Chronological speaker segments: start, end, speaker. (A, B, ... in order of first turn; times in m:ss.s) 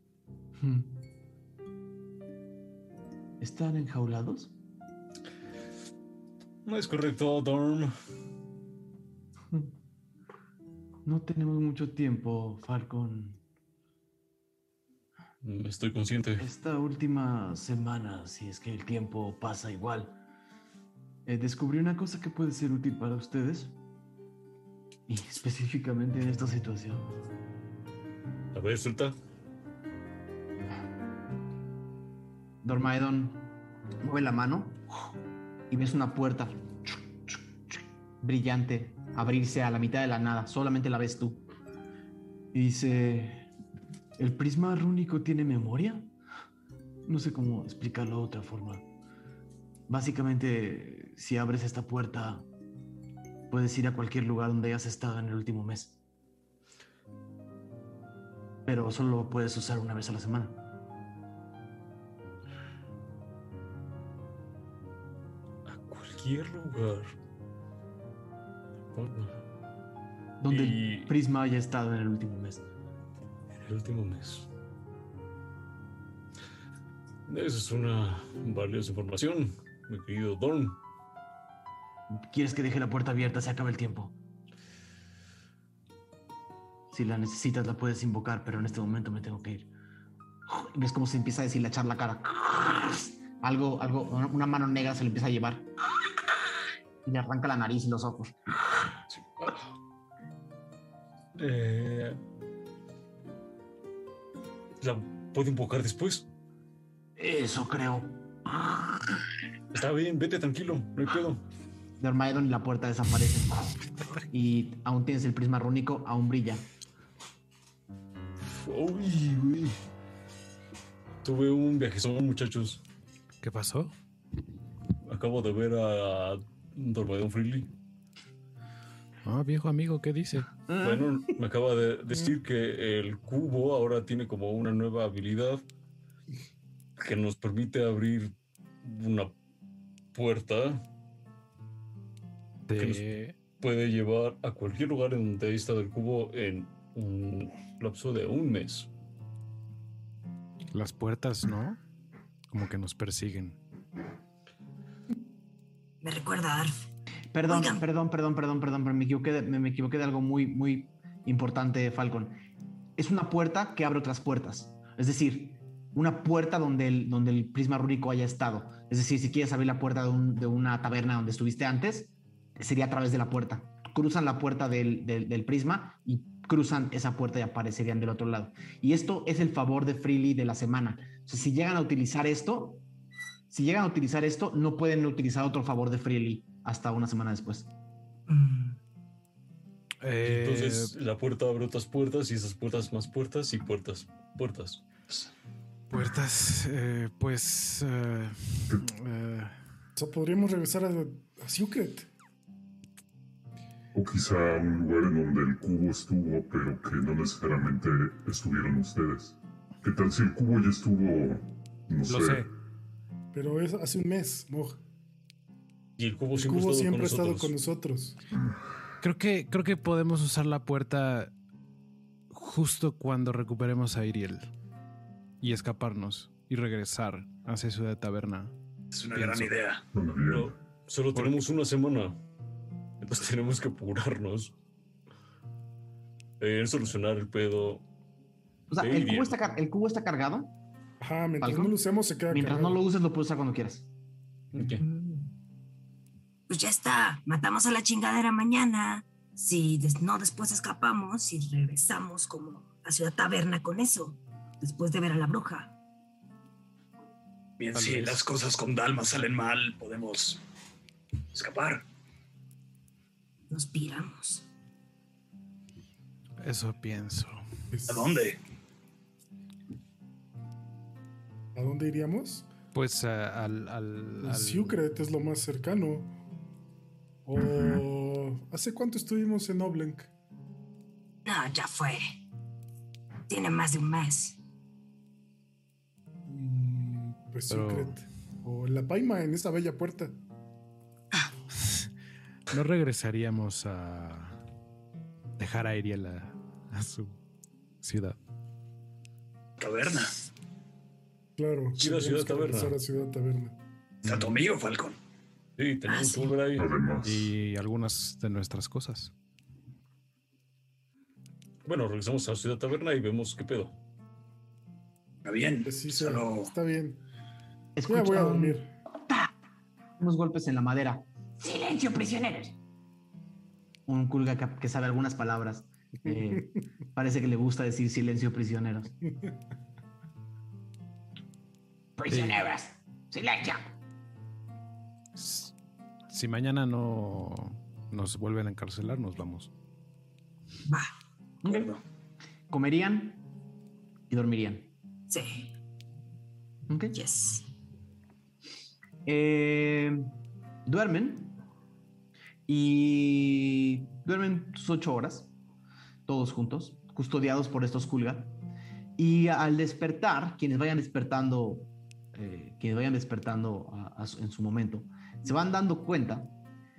0:00.6-0:00.9 A
0:03.4-0:04.5 A
0:06.6-0:07.9 B
0:11.0-0:13.4 A
0:15.4-0:16.5 B
0:16.4-0:20.1 A
0:21.2-0:23.7 A
0:25.1-0:27.1 A
0:28.5-0:29.1 B
0:32.6-0:33.5 A
0:34.0-0:34.8 A
0:35.7-0:41.4 A
0:42.5-0:43.4 A
0:44.2-0:46.1 A
0:47.0-0:48.8 A
0:49.9-0:52.4 A
0:53.5-0:56.0 A
0:58.6-1:00.6 A
1:05.6-1:07.1 B
1:08.9-1:09.3 B
1:10.4-1:12.6 A
1:10.5-1:11.1 B
1:13.5-1:14.5 B
1:17.3-1:20.8 B
1:22.1-1:24.1 A
1:26.9-1:29.7 A
1:30.5-1:35.6 A
1:37.0-1:38.4 A
1:39.1-1:39.6 B
1:41.4-1:42.2 B
1:44.8-1:46.3 B
1:47.2-1:48.1 A
1:49.7-1:51.4 B
1:52.0-1:53.5 A
1:54.3-1:56.6 A
1:58.4-1:59.8 B
2:01.2-2:02.8 B
2:03.4-2:03.9 C
2:05.0-2:07.7 B
2:09.2-2:10.5 C
2:10.7-2:11.3 A
2:10.8-2:15.6 B
2:17.0-2:19.3 B
2:20.1-2:20.8 B
2:22.7-2:23.4 C
2:22.8-2:23.0 B
2:23.6-2:28.9 B
2:30.7-2:31.8 C
2:32.5-2:33.6 C
2:36.0-2:36.8 D
2:37.3-2:42.4 A
2:37.5-2:37.8 D
2:43.0-3:02.8 A
3:03.5-3:07.7 A
3:08.3-3:08.7 D
3:10.0-3:10.9 C
3:10.2-3:15.2 B
3:15.9-3:19.6 C
3:20.0-3:22.1 E
3:23.9-3:32.5 F
3:32.1-3:32.5 C
3:33.3-3:34.8 E
3:36.0-3:37.5 B
3:36.3-3:38.2 E
3:39.0-3:41.3 C
3:42.3-3:44.5 C
3:45.4-3:48.5 C
3:48.9-3:49.8 G
3:49.1-3:49.6 C
3:49.9-3:50.5 F
3:50.2-3:52.2 B
3:51.1-3:51.4 C
3:53.0-3:54.5 B
3:56.4-3:57.8 B
3:58.7-4:00.5 A
3:58.7-3:59.3 B
4:01.0-4:02.8 E
4:01.4-4:01.7 A
4:02.3-4:03.9 A
4:04.5-4:04.8 B
4:04.8-4:05.2 D
4:06.5-4:15.7 D
4:17.6-4:20.4 G
4:17.7-4:18.2 C
4:21.3-4:21.8 G
4:23.5-4:24.4 D
4:26.4-4:27.4 C
4:27.7-4:28.2 E
4:27.9-4:28.4 G
4:31.5-4:32.5 E
4:32.7-4:34.8 C
4:34.2-4:36.1 E
4:37.2-4:40.1 E
4:37.4-4:37.8 F
4:41.2-4:42.0 D
4:43.3-4:44.4 D
4:46.3-4:50.2 E
4:47.5-4:48.0 C
4:51.5-4:51.9 C
4:52.5-4:54.4 C
4:55.4-4:57.2 C
4:57.8-4:58.2 C
4:59.6-5:00.3 G
5:01.4-5:03.6 E
5:01.8-5:02.8 B
5:04.0-5:05.0 G
5:04.0-5:04.3 C
5:05.6-5:06.7 B
5:05.9-5:06.3 D
5:06.6-5:07.3 F
5:07.0-5:09.1 C
5:11.6-5:13.7 B
5:15.2-5:16.5 G
5:15.6-5:17.0 E
5:17.8-5:19.3 A
5:17.9-5:18.7 E
5:20.0-5:21.0 A
5:21.4-5:22.6 H
5:23.9-5:28.9 A
5:32.0-5:33.7 H
5:32.1-5:32.5 C
5:35.1-5:35.5 C
5:36.1-5:39.5 C
5:41.4-5:41.8 G
5:42.5-5:43.2 A
5:44.1-5:44.7 A
5:45.1-5:45.5 D
5:46.7-5:47.0 A
5:46.9-5:47.4 D
5:49.0-5:50.1 A
5:50.6-5:51.3 A
5:52.5-5:55.3 A
5:56.1-5:58.3 A
5:59.0-6:06.3 A